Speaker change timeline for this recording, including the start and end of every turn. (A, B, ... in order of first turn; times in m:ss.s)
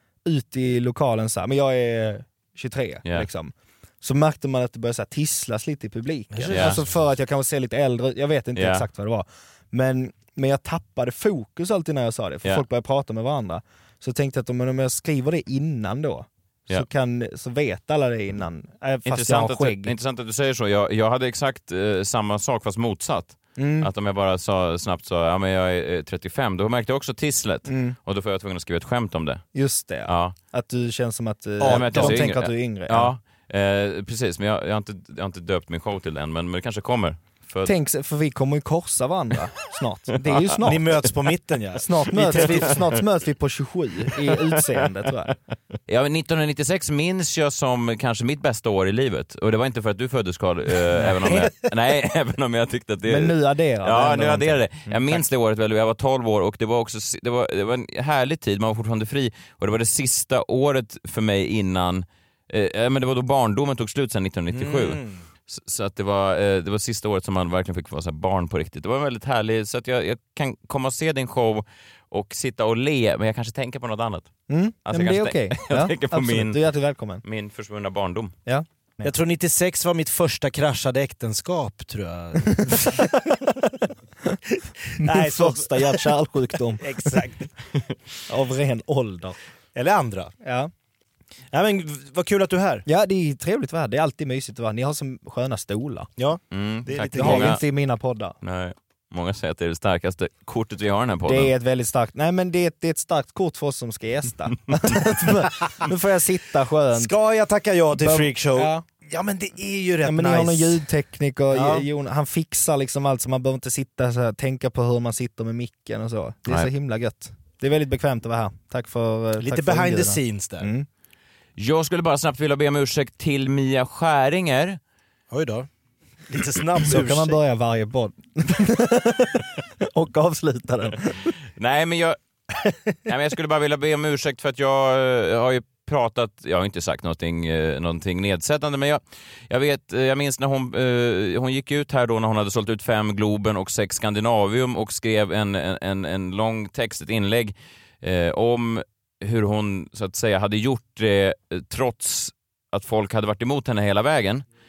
0:00.2-0:20.0 A
0:06.3-0:07.0 B
0:06.5-0:06.8 C
0:08.6-0:08.8 C
0:19.1-0:29.4 C
0:23.6-0:23.9 A
0:27.7-0:28.0 A
0:29.5-0:33.1 A
0:30.1-0:30.4 C
0:31.6-0:32.3 B
0:31.6-0:37.7 C
0:37.6-0:41.1 A
0:40.3-0:40.6 C
0:40.6-0:42.9 B
0:41.8-0:45.3 A
0:45.9-1:14.3 C
0:51.3-0:51.5 B
0:53.1-0:55.2 A
1:04.5-1:05.2 B
1:14.5-1:17.2 A
1:14.8-1:16.6 C
1:17.2-1:18.4 C
1:18.5-1:19.1 A
1:19.0-1:23.6 B
1:24.8-1:26.2 B
1:25.0-1:27.2 A
1:26.8-1:27.5 B
1:28.3-1:29.4 A
1:29.8-1:30.3 B
1:30.4-1:30.7 A
1:31.5-1:32.8 B
1:32.9-1:36.1 A
1:36.2-1:37.6 B
1:36.5-1:37.6 C
1:37.1-1:38.4 A
1:38.4-1:41.5 C
1:41.3-1:47.1 A
1:46.9-1:50.8 B
1:47.9-1:48.8 A
1:50.0-2:00.9 A
1:51.5-1:51.9 B
1:59.4-2:00.7 B
2:01.6-2:04.8 C
2:05.3-2:05.7 B
2:06.3-2:07.4 B
2:06.8-2:11.3 A
2:11.6-2:12.2 C
2:13.1-2:34.4 C